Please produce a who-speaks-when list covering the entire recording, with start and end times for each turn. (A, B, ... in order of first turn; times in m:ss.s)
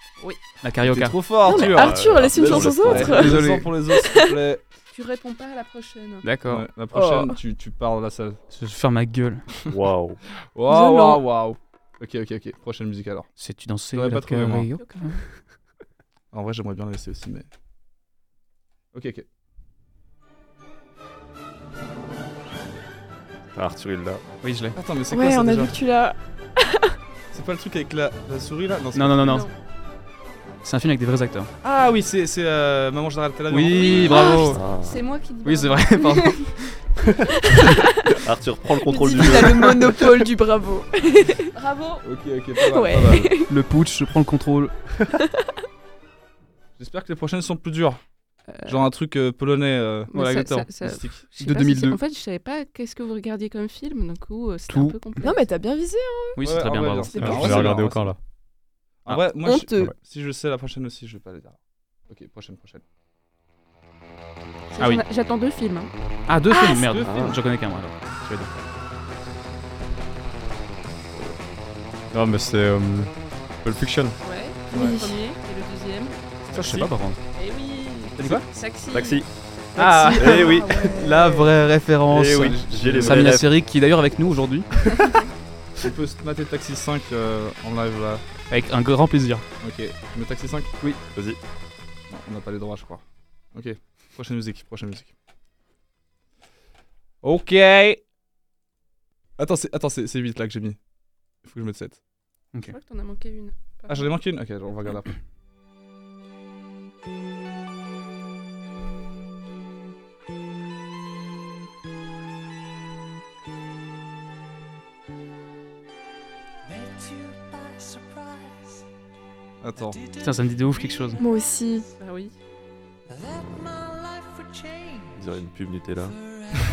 0:00.6-0:01.2 A
0:00.8-0:04.6 B
0:01.4-0:04.4 C
0:01.5-0:03.3 D
0:03.0-0:03.7 A
0:04.9-0:06.2 E
0:06.2-0:06.6 A
0:06.4-0:08.4 B
0:06.9-0:07.4 C
0:08.5-0:09.4 A
0:09.7-0:10.2 D
0:10.5-0:13.3 B
0:10.7-0:11.2 C
0:13.4-0:15.2 A
0:13.9-0:14.7 B
0:14.8-0:15.1 E
0:16.3-0:17.5 B
0:18.9-0:19.2 B
0:23.5-0:24.2 D
0:24.4-0:24.8 A
0:24.7-0:25.7 B
0:25.1-0:26.9 C
0:27.3-0:29.5 B
0:28.9-0:29.4 A
0:29.3-0:29.5 E
0:30.6-0:31.5 A
0:31.6-0:34.4 B
0:33.5-0:34.6 A
0:33.7-0:36.5 E
0:34.2-0:34.5 C
0:34.5-0:35.0 D
0:35.4-0:36.8 A
0:38.2-0:39.8 D
0:38.8-0:41.5 C
0:41.5-0:42.0 E
0:42.0-0:43.4 B
0:42.6-0:43.5 C
0:43.5-0:44.7 A
0:46.8-0:48.0 B
0:48.5-0:48.9 E
0:48.6-0:50.1 B
0:50.1-0:55.4 E
0:50.1-0:50.7 A
0:50.8-0:51.2 B
0:51.4-0:52.0 A
0:54.7-0:55.0 A
0:55.2-0:56.4 C
0:56.4-0:57.4 A
0:56.4-0:58.1 B
0:57.1-0:57.6 C
0:57.2-0:58.2 F
0:59.0-1:01.6 B
0:59.4-0:59.9 C
1:02.1-1:02.8 B
1:04.7-1:05.9 E
1:06.3-1:08.6 A
1:06.5-1:06.9 C
1:06.8-1:07.2 B
1:07.0-1:07.4 D
1:12.1-1:13.1 F
1:13.6-1:14.2 F
1:14.2-1:16.2 E
1:14.7-1:15.2 C
1:16.5-1:17.2 A
1:17.4-1:19.2 E
1:18.2-1:18.4 A
1:18.9-1:19.3 D
1:19.8-1:24.7 A
1:19.8-1:21.3 C
1:20.2-1:20.9 D
1:22.1-1:23.5 D
1:22.3-1:23.5 B
1:25.0-1:25.3 E
1:25.8-1:28.2 B
1:28.5-1:29.4 A
1:29.6-1:30.7 B
1:31.1-1:31.4 D
1:32.1-1:35.1 B
1:37.2-1:38.0 B
1:39.4-1:40.8 B
1:41.4-1:42.0 B
1:42.6-1:44.1 E
1:43.9-1:45.1 B
1:59.6-2:00.0 B
2:00.1-2:01.2 A
2:01.2-2:01.8 C
2:02.0-2:02.3 E
2:05.1-2:06.2 D